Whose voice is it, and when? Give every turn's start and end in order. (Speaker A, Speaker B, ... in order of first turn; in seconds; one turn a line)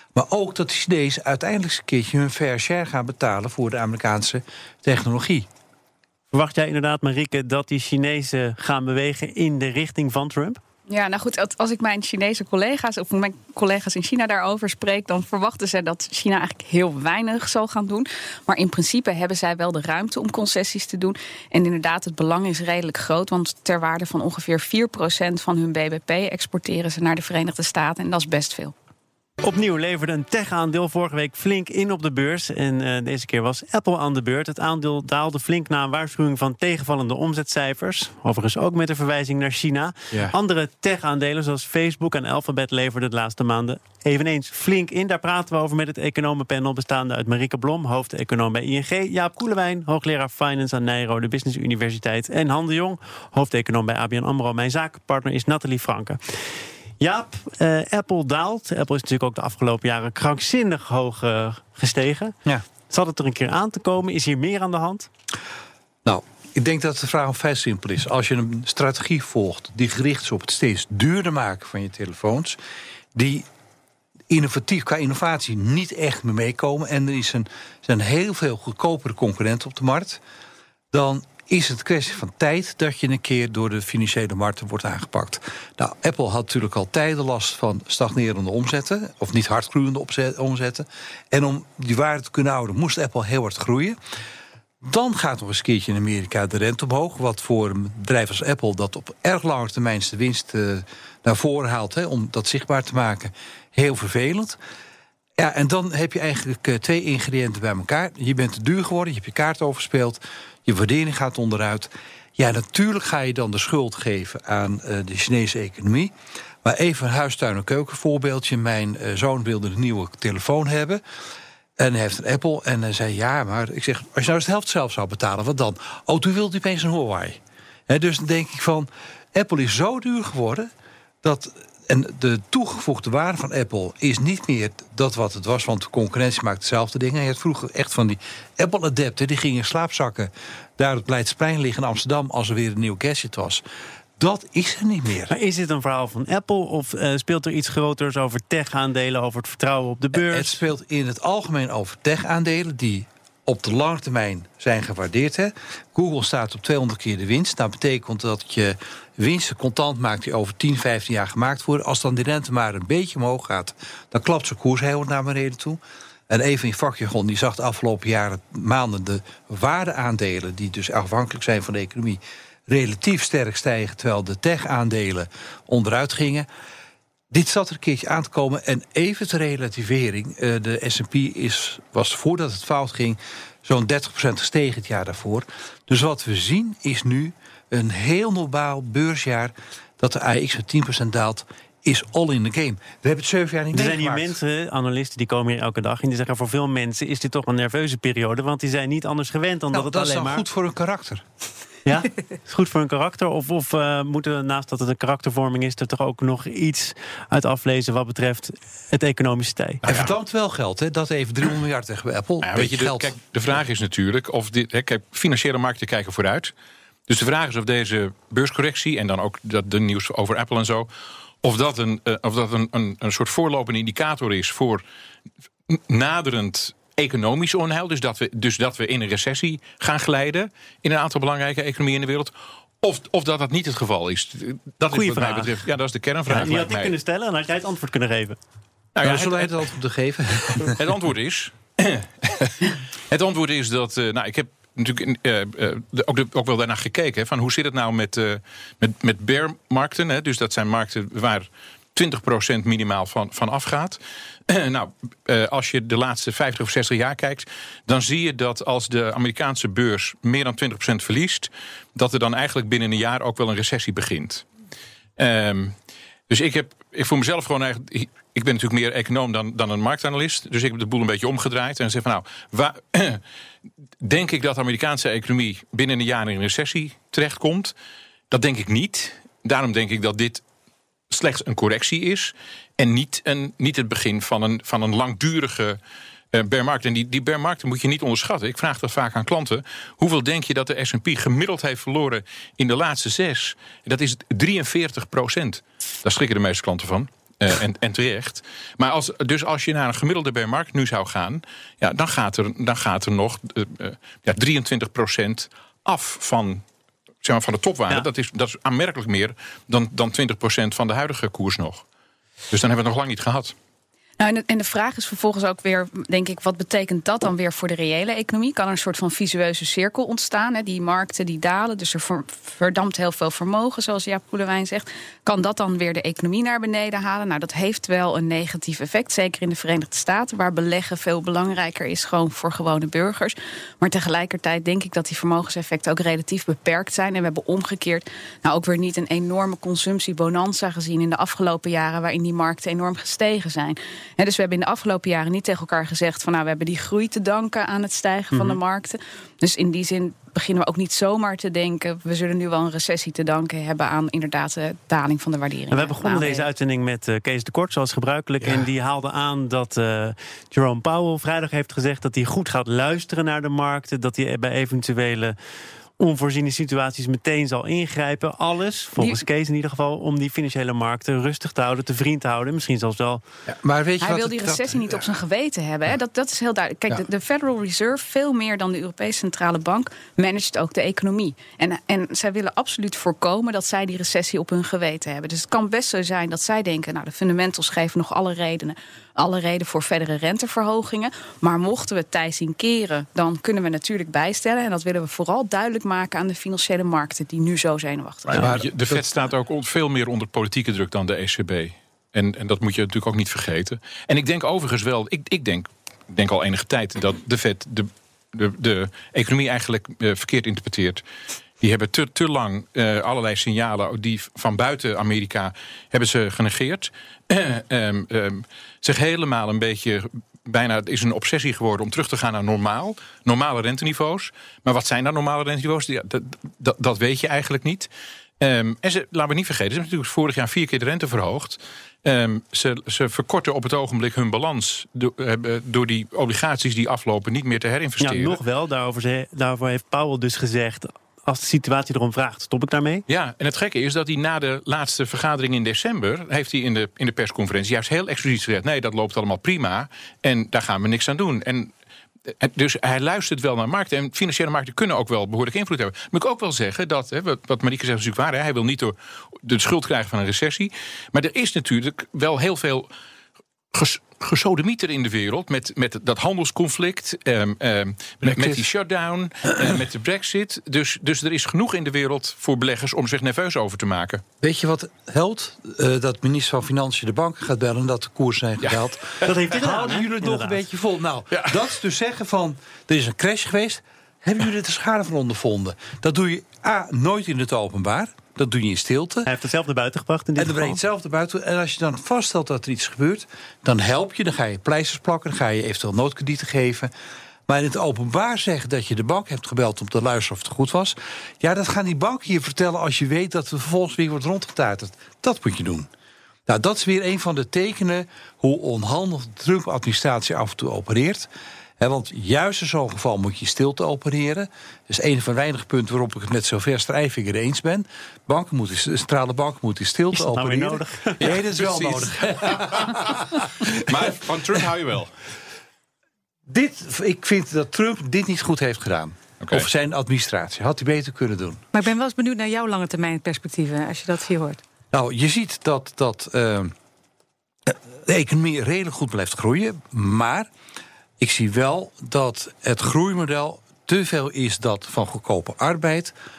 Speaker A: 0.1-5.5
Speaker B: 6.3-10.6
Speaker C: 10.9-28.7
Speaker B: 29.4-56.2
Speaker B: 57.0-62.3
Speaker B: 62.9-65.1
Speaker A: 66.0-72.6
Speaker A: 73.1-73.5
Speaker A: 74.3-80.2
Speaker A: 80.9-94.0
Speaker A: 94.8-104.6
Speaker A: 105.4-116.1
Speaker A: 116.6-121.0
Speaker A: 121.8-130.7
Speaker A: 131.2-143.6
Speaker A: 144.2-145.3
Speaker B: 145.3-150.6
Speaker A: 150.1-176.5
Speaker A: 177.3-194.4
Speaker B: 193.7-200.4
Speaker A: 199.7-201.2
Speaker B: 201.8-209.8
Speaker D: 209.8-210.1
Speaker A: 209.8-213.1
Speaker D: 212.4-216.5
Speaker D: 217.1-220.9
Speaker D: 221.4-224.8
Speaker D: 225.7-236.9
Speaker B: 234.9-235.5
Speaker B: 236.3-238.4
Speaker D: 238.9-239.6
Speaker A: 239.0-240.8
Speaker D: 240.6-264.4
Speaker D: 265.2-265.7
Speaker D: 266.3-273.2
Speaker D: 274.0-277.7
Speaker D: 278.3-280.4
Speaker D: 281.1-285.8
Speaker D: 286.3-306.6
Speaker D: 307.2-311.8
Speaker D: 312.5-313.5
Speaker C: 314.2-356.4
Speaker B: 348.3-348.6
Speaker B: 355.7-365.3
Speaker B: 366.0-373.2
Speaker A: 373.5-375.1
Speaker C: 374.0-398.5
Speaker D: 398.3-411.0
Speaker A: 398.3-399.1
Speaker D: 411.6-438.4
Speaker B: 438.0-443.0
Speaker D: 443.1-451.7
Speaker D: 452.4-462.9
Speaker D: 463.7-474.2
Speaker A: 468.2-468.6
Speaker A: 474.4-489.3
Speaker D: 478.6-479.3
Speaker B: 479.2-480.6
Speaker D: 481.3-481.6
Speaker B: 489.2-490.8
Speaker A: 490.4-496.9
Speaker A: 497.5-505.9
Speaker A: 506.5-511.3
Speaker A: 511.8-523.6
Speaker B: 520.1-521.4
Speaker D: 521.2-525.1
Speaker A: 526.5-531.6
Speaker D: 529.4-529.7
Speaker E: 531.7-534.6
Speaker A: 534.9-536.7
Speaker A: 537.7-540.5
Speaker A: 541.2-546.1